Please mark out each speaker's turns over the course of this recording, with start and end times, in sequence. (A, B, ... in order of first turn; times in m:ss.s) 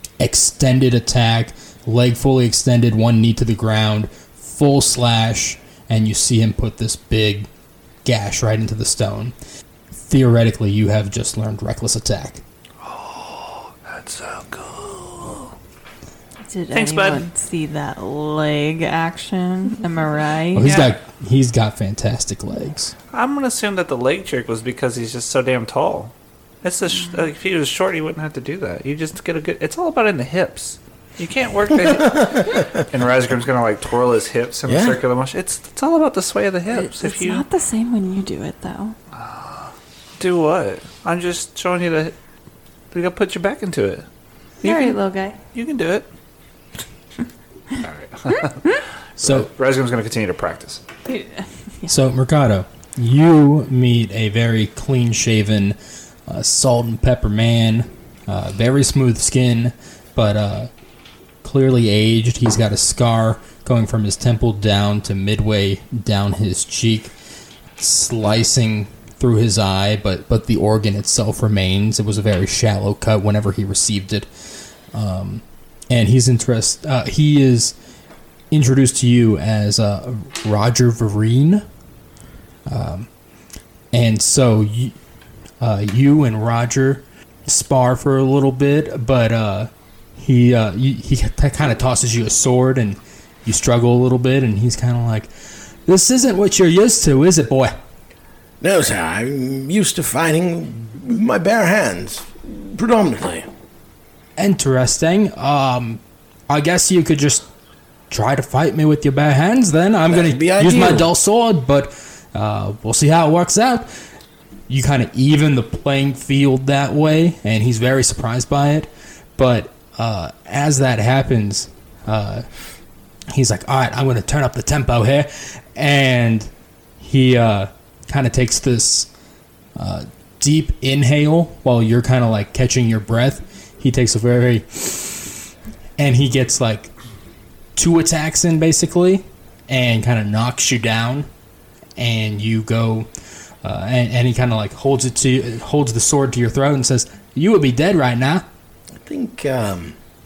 0:00.2-0:07.5 A
0:08.0-0:09.3 A
0:10.0-0:12.4 A
0:12.8-0:15.5 B
0:16.4-0:20.8 C
0:16.7-0:17.2 B
0:20.5-0:22.9 A
0:20.6-0:20.9 B
0:23.1-0:37.4 B
0:32.2-0:32.6 D
0:34.7-0:35.0 D
0:36.7-0:39.0 C
0:39.1-0:42.1 B
0:42.9-0:44.0 B
0:44.6-0:45.0 B
0:44.6-0:45.4 C
0:45.5-0:46.1 B
0:47.8-0:50.8 B
0:49.2-0:49.5 A
0:51.0-0:51.9 C
0:51.9-1:00.7 A
1:01.4-1:07.1 A
1:07.8-1:14.3 A
1:14.9-1:17.7 A
1:18.5-1:21.6 A
1:22.6-1:23.1 A
1:23.9-1:24.9 A
1:25.6-1:35.3 A
1:35.8-1:37.7 A
1:38.6-1:43.5 D
1:44.4-1:47.4 A
1:48.1-1:53.9 A
1:50.1-1:51.1 D
1:54.7-2:02.4 A
2:03.3-2:09.1 A
2:09.8-2:16.9 A
2:17.8-2:21.3 A
2:22.0-2:23.1 A
2:23.6-2:28.4 A
2:29.0-2:29.9 D